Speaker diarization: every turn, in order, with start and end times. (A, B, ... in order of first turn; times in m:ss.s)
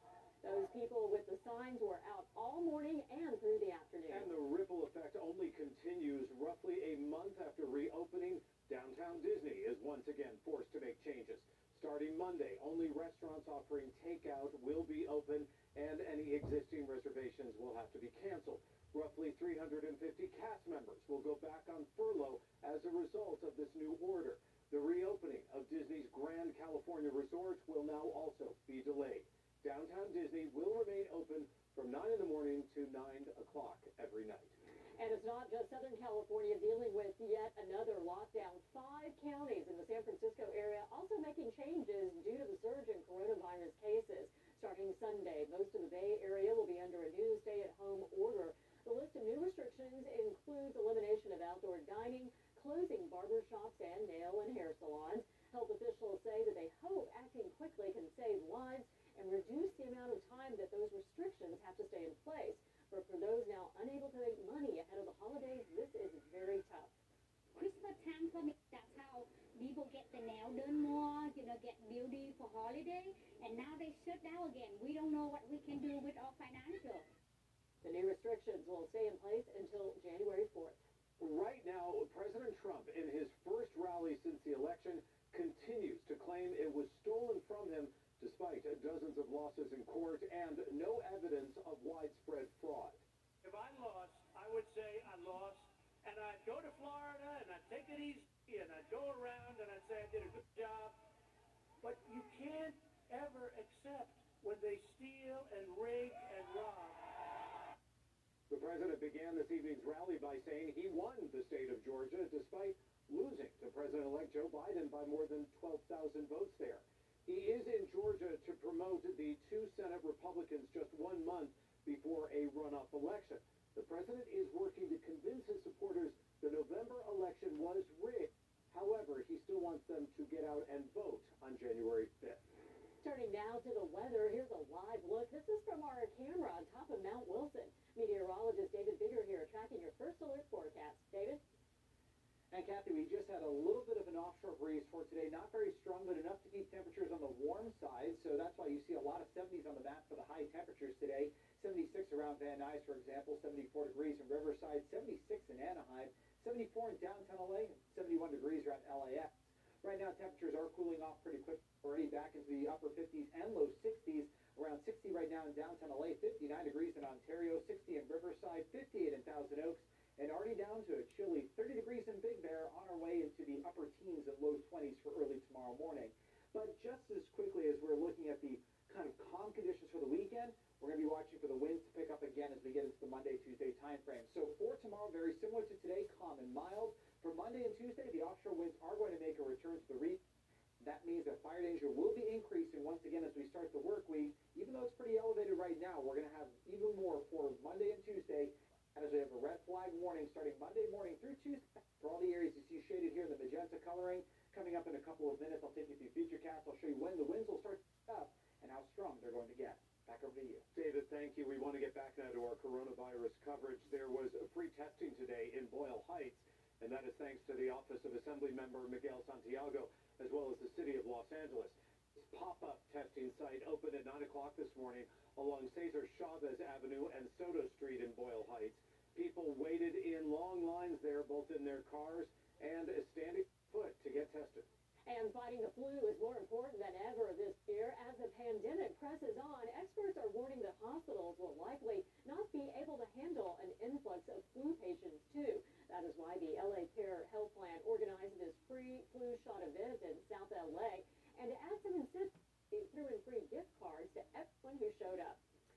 0:00.4-0:04.3 A
0:04.1-0:34.6 B
0:35.0-1:06.9 A
1:07.5-1:17.0 C
1:17.8-1:20.8 A
1:21.2-1:33.0 B
1:33.4-1:40.9 D
1:41.8-1:47.0 D
1:48.5-2:12.4 B
2:13.0-2:21.4 A
2:22.5-3:10.2 E
3:10.8-3:30.6 E
3:30.7-3:54.7 B
3:55.1-4:15.4 A